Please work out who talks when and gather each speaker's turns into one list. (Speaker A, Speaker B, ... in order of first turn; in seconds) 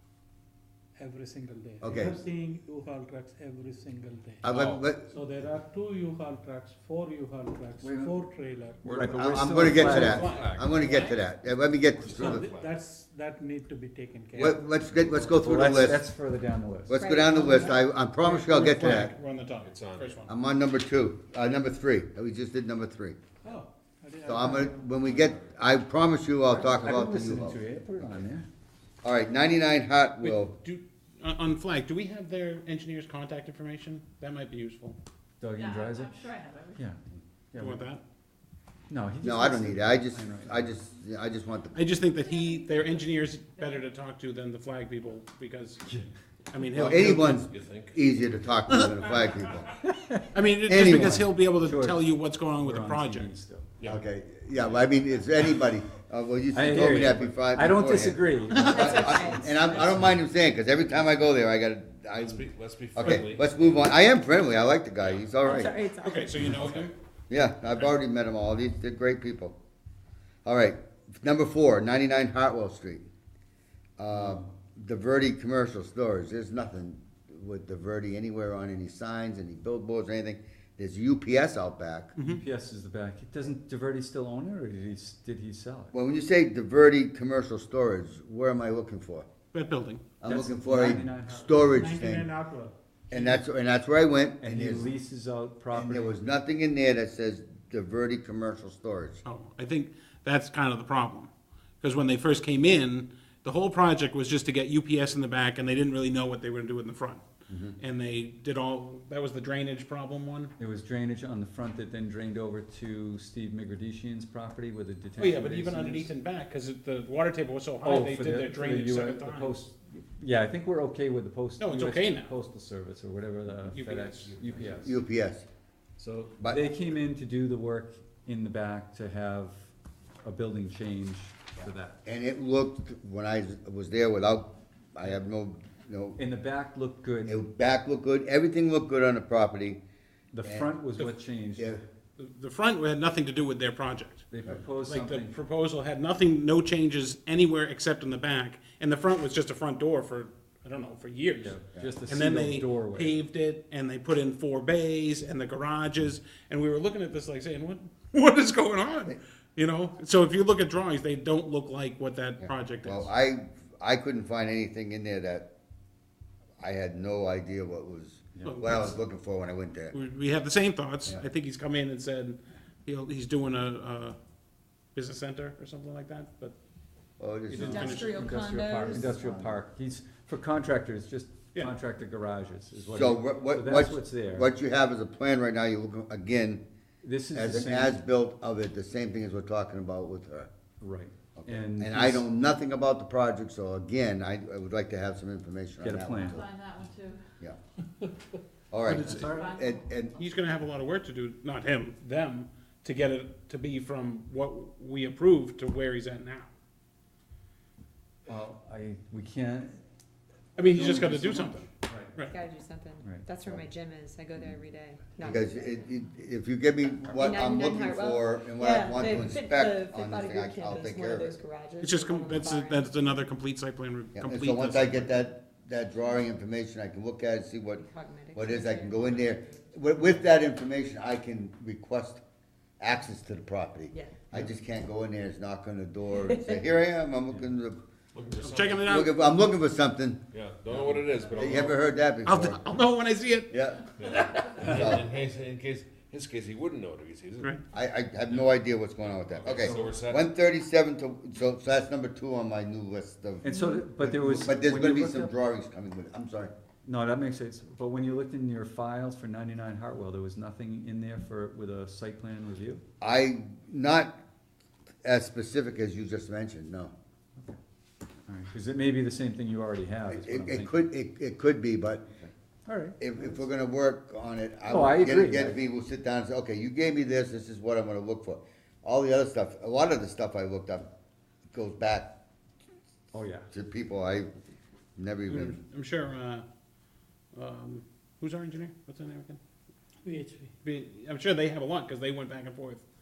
Speaker A: 0.9-4.5, 5.1-9.0, 12.1-14.6, 23.4-25.0, 91.7-93.2, 290.0-290.5
Speaker B: 1.8-2.1, 4.4-5.1, 9.0-12.5, 14.3-16.0, 16.9-19.1, 20.3-23.2, 24.2-27.6, 29.0-30.5, 39.2-41.8, 46.7-49.6, 50.6-51.2, 53.9-65.8, 67.3-69.5, 70.4-73.1, 74.0-82.1, 85.9-89.3, 90.2-92.3, 93.1-94.9, 95.7-99.2, 107.5-107.8, 124.6-125.5, 126.4-126.7, 132.1-136.2, 137.2-139.8, 140.4-140.7, 141.6-141.8, 162.4-165.5, 166.6-169.9, 177.2-178.1, 179.0-179.5, 182.9-186.6, 187.3-190.5, 191.3-196.5, 198.7-200.1, 215.2-221.3, 224.1-227.8, 228.3-232.2, 232.8-237.8, 238.8-240.2, 241.3-242.6, 243.5-243.8, 244.6-245.1, 247.7-256.5, 263.0-264.1, 265.0-266.9, 270.1-272.3, 273.0-280.9, 281.5-282.1, 283.5-284.3, 284.9-285.6
Speaker C: 4.5-4.8, 9.8-11.1, 18.2-20.3, 30.2-35.0, 37.6-38.0, 41.7-47.4, 48.7-49.3, 50.3-53.3, 66.0-66.9, 82.2-82.4, 89.5-90.0, 99.2-101.3, 101.8-107.2, 107.8-110.5, 115.2-119.6, 121.6-122.3, 123.7-124.4, 142.2-144.3, 144.8-163.1, 168.4-168.9, 169.9-174.2, 174.9-176.5, 177.5-178.3, 198.8-199.3, 200.2-206.5, 210.6-212.3, 221.8-225.2, 238.4-239.2, 242.2-244.4, 285.3-286.4, 287.3-289.4, 290.6-292.8
Speaker D: 7.8-8.2, 8.8-10.3, 15.3-17.0, 18.7-19.1, 26.4-28.4, 35.4-36.1, 37.5-37.8, 38.9-40.7, 49.9-52.0, 52.6-53.7, 56.5-59.3, 82.2-85.9, 90.2-91.8, 94.4-96.2, 110.6-116.1, 117.8-124.9, 126.0-129.6, 130.2-132.0, 136.2-137.4, 140.3-141.8, 144.3-145.3, 151.4-153.1, 177.6-184.5, 187.0-188.0, 190.8-192.2, 195.8-196.4, 208.3-209.8, 210.7-212.2, 213.0-213.2, 253.4-255.3, 256.9-262.8, 268.3-270.7, 272.7-273.1, 274.7-275.6, 283.1-283.5
Speaker E: 8.8-11.3, 12.0-12.8, 19.6-20.3, 47.4-48.1, 53.8-54.9, 59.7-60.1, 62.1-63.9, 124.4-124.9, 238.1-239.1, 240.3-241.8, 244.0-247.6, 249.3-250.2
Speaker F: 16.9-17.8, 58.5-59.8, 65.4-66.5, 177.6-179.2, 212.3-215.7, 217.1-223.0, 227.7-229.8, 233.9-234.2, 236.2-236.6, 253.6-253.8
Speaker G: 35.5-36.8, 42.2-44.0, 196.1-197.2, 199.0-200.2